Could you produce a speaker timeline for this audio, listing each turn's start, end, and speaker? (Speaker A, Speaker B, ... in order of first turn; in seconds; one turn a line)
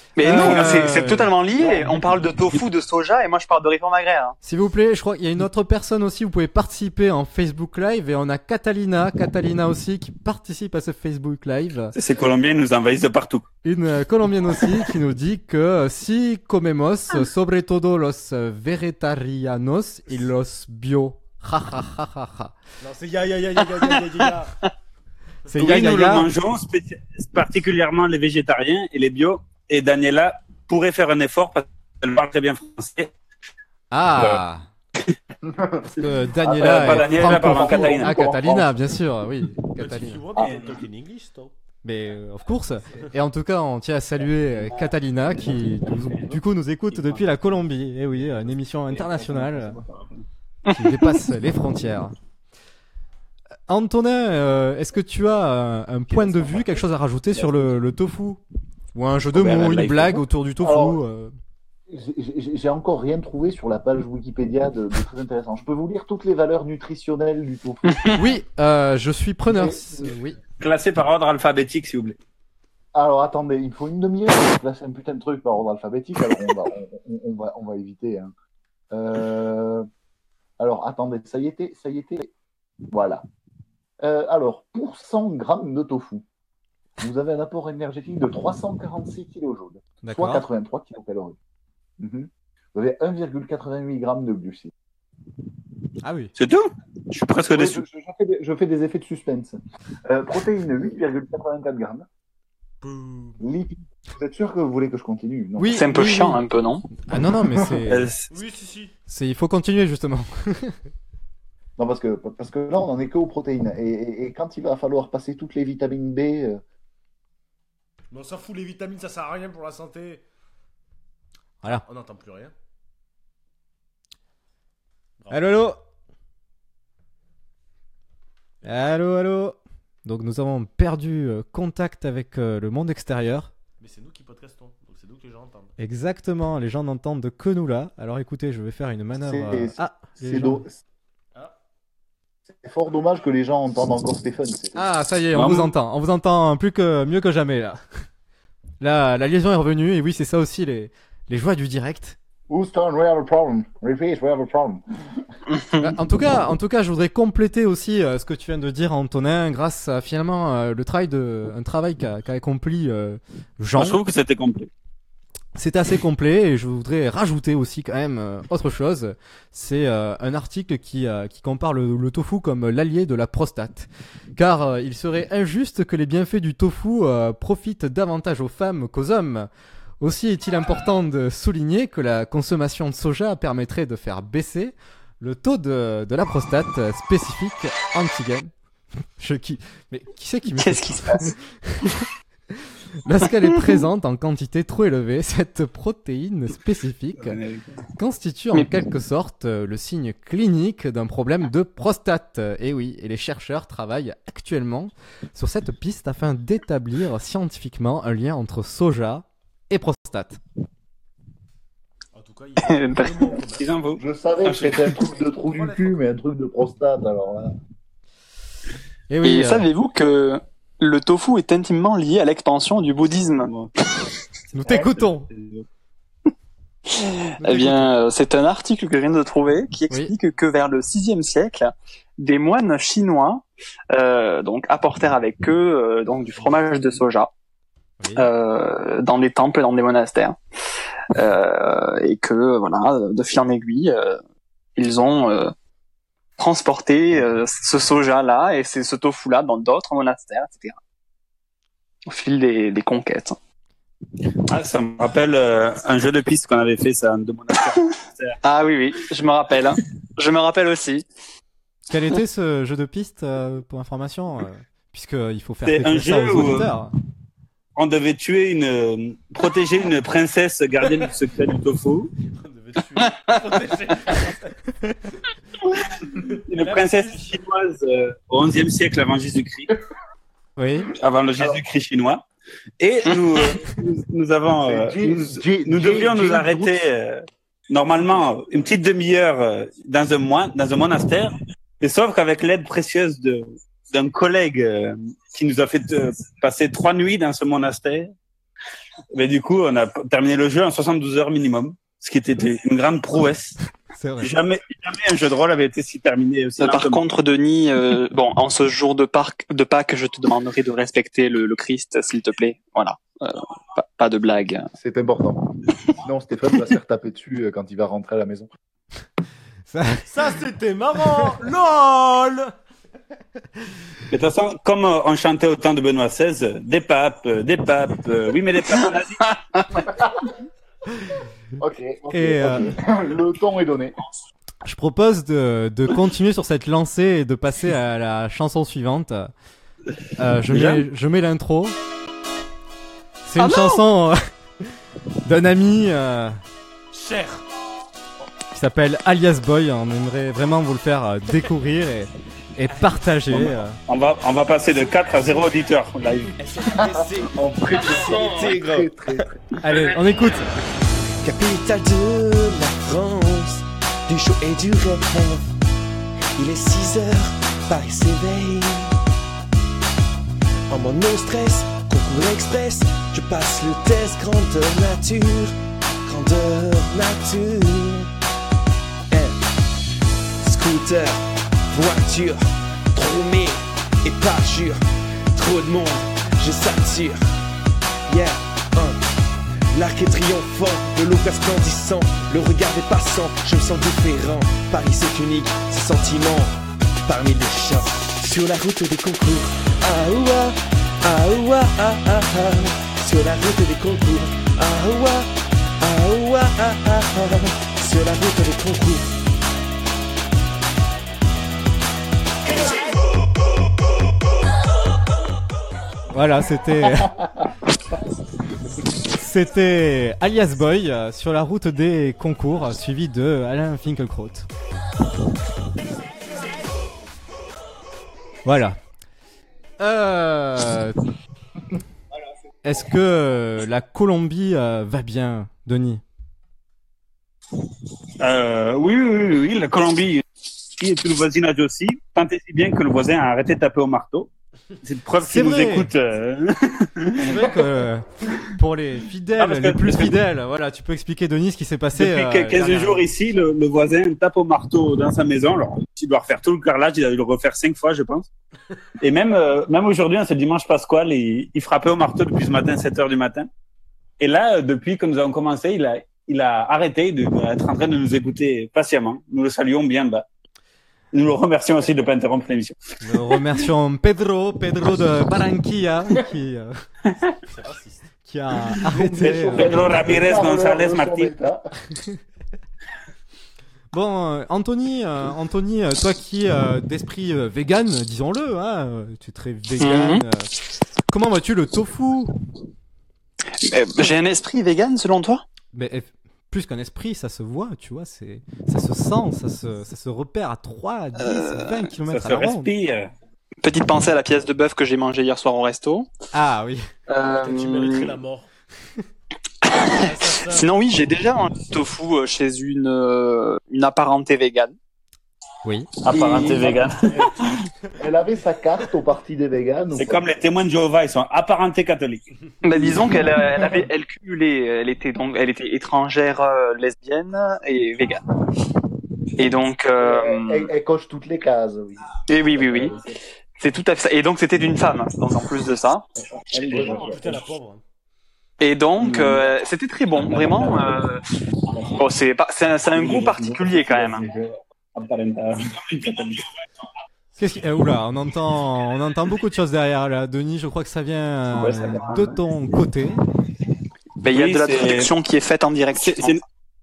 Speaker A: 0.2-4.3
Speaker B: 0.2-1.3
Speaker B: 4.4-11.9
Speaker C: 11.9-13.4
Speaker B: 13.6-22.5
Speaker D: 22.8-24.5
Speaker A: 23.8-24.2
Speaker B: 25.5-26.3
Speaker C: 25.6-33.1
Speaker B: 33.9-34.6
Speaker E: 35.4-35.9
Speaker B: 36.0-40.2
Speaker E: 36.4-38.7
Speaker C: 36.5-38.1
Speaker D: 39.8-41.5
Speaker E: 40.4-40.8
Speaker C: 40.4-40.8
Speaker B: 41.8-49.8
Speaker C: 46.9-47.2
Speaker A: 50.7-51.2
Speaker B: 50.7-52.1
Speaker B: 53.7-58.4
Speaker B: 58.9-61.3
Speaker C: 59.3-60.2
Speaker E: 60.6-61.0
Speaker E: 61.9-67.9
Speaker A: 67.9-68.2
Speaker B: 68.1-70.4
Speaker E: 69.5-70.1
Speaker C: 70.6-72.2
Speaker E: 72.9-78.3
Speaker E: 78.9-79.9
Speaker E: 80.6-82.3
Speaker E: 82.9-83.2
Speaker E: 84.0-86.2
Speaker E: 87.0-91.4
Speaker B: 90.0-90.4
Speaker E: 92.0-94.7
Speaker B: 96.0-96.3
Speaker C: 96.3-97.8
Speaker E: 97.5-102.0
Speaker D: 102.8-103.4
Speaker E: 103.4-105.8
Speaker B: 105.6-106.4
Speaker A: 105.7-106.9
Speaker B: 107.1-108.1
Speaker C: 107.9-108.3
Speaker D: 108.3-108.9
Speaker B: 109.1-110.8
Speaker E: 111.8-116.6
Speaker D: 118.1-120.2
Speaker D: 121.8-122.5
Speaker D: 125.2-125.5
Speaker B: 125.3-125.8
Speaker B: 128.6-133.5
Speaker D: 133.8-135.7
Speaker B: 135.8-140.6
Speaker E: 139.2-140.8
Speaker E: 142.5-144.8
Speaker B: 144.7-147.8
Speaker C: 145.3-145.7
Speaker B: 148.8-152.2
Speaker E: 152.5-155.2
Speaker A: 155.5-155.9
Speaker B: 155.8-164.0
Speaker C: 163.8-164.7
Speaker B: 165.6-179.5
Speaker B: 180.0-188.5
Speaker B: 189.2-192.0
Speaker A: 190.5-191.3
Speaker B: 193.0-197.4
Speaker C: 197.2-197.8
Speaker B: 198.0-210.4
Speaker D: 212.1-213.7
Speaker A: 212.6-213.4
Speaker C: 213.5-214.9
Speaker E: 214.0-217.5
Speaker D: 215.4-216.0
Speaker B: 219.1-219.7
Speaker A: 219.2-223.5
Speaker C: 223.4-223.7
Speaker B: 224.5-225.3
Speaker C: 224.6-225.6
Speaker A: 226.9-237.3
Speaker B: 227.4-227.9
Speaker B: 238.0-238.3
Speaker A: 238.2-240.4
Speaker A: 241.1-244.2
Speaker A: 244.8-245.5
Speaker A: 246.4-250.8
Speaker A: 252.1-253.4
Speaker C: 254.5-258.4
Speaker A: 258.4-261.0
Speaker B: 261.9-266.9
Speaker C: 265.6-266.7
Speaker C: 267.8-272.1
Speaker D: 272.3-274.5
Speaker A: 273.0-273.4
Speaker D: 276.1-277.4
Speaker C: 276.5-279.7
Speaker B: 280.6-280.9
Speaker C: 280.9-282.2
Speaker C: 282.8-298.1
Speaker E: 284.6-286.7
Speaker C: 299.1-303.6
Speaker B: 303.9-304.3
Speaker C: 304.2-307.0
Speaker A: 306.6-314.7
Speaker E: 314.8-318.5
Speaker B: 319.7-320.0
Speaker D: 320.1-322.5
Speaker C: 324.1-329.2
Speaker E: 331.6-333.9
Speaker B: 332.1-332.8
Speaker B: 334.6-339.3
Speaker B: 340.2-341.7
Speaker C: 340.5-340.8
Speaker B: 343.2-344.2
Speaker B: 345.2-346.4
Speaker D: 346.9-347.4
Speaker B: 348.5-353.8
Speaker C: 353.3-356.3
Speaker F: 356.4-358.9
Speaker E: 356.8-359.3
Speaker B: 359.6-360.5
Speaker F: 361.2-365.5
Speaker F: 366.4-368.9
Speaker F: 370.7-378.1
Speaker F: 379.1-379.5
Speaker F: 380.4-382.4
Speaker F: 382.9-384.8
Speaker F: 385.3-387.2
Speaker F: 388.1-389.0
Speaker F: 389.7-396.5
Speaker F: 397.0-409.1
Speaker B: 416.1-417.1
Speaker B: 419.1-424.5
Speaker B: 428.4-428.8
Speaker B: 429.8-431.0
Speaker B: 432.6-436.0
Speaker C: 438.2-440.2
Speaker C: 440.7-444.3
Speaker C: 444.8-447.6
Speaker B: 445.2-445.9
Speaker B: 447.2-453.1
Speaker C: 449.4-450.1
Speaker C: 451.9-458.3
Speaker C: 459.0-463.5
Speaker C: 464.2-470.2
Speaker C: 471.1-472.8
Speaker B: 473.0-476.7
Speaker D: 477.5-478.1
Speaker B: 478.2-479.9
Speaker E: 478.9-481.6
Speaker C: 479.2-481.3
Speaker B: 483.9-490.5
Speaker A: 489.8-490.2
Speaker B: 491.1-492.3
Speaker A: 493.6-495.4
Speaker B: 495.7-502.7
Speaker A: 501.2-501.9
Speaker C: 502.1-503.1
Speaker A: 503.6-506.1
Speaker B: 506.3-506.8
Speaker A: 507.1-508.1
Speaker D: 507.4-508.5
Speaker A: 509.6-514.7
Speaker D: 510.0-510.7
Speaker B: 515.6-515.9
Speaker C: 516.0-517.5
Speaker E: 516.1-517.4
Speaker A: 516.1-516.6
Speaker E: 518.0-520.2
Speaker C: 519.9-522.2
Speaker A: 522.6-528.2
Speaker E: 522.8-523.4
Speaker A: 529.4-530.7
Speaker E: 530.0-533.0
Speaker A: 532.3-532.9
Speaker A: 533.6-536.0
Speaker E: 536.5-537.4
Speaker C: 536.6-537.1
Speaker D: 536.8-537.8
Speaker A: 538.6-541.2
Speaker C: 539.0-539.5
Speaker C: 540.2-541.0
Speaker A: 542.0-544.2
Speaker C: 542.9-544.3
Speaker C: 544.9-546.4
Speaker B: 547.4-553.2
Speaker C: 551.5-552.3
Speaker A: 554.2-556.4
Speaker C: 554.3-555.1
Speaker C: 556.0-556.4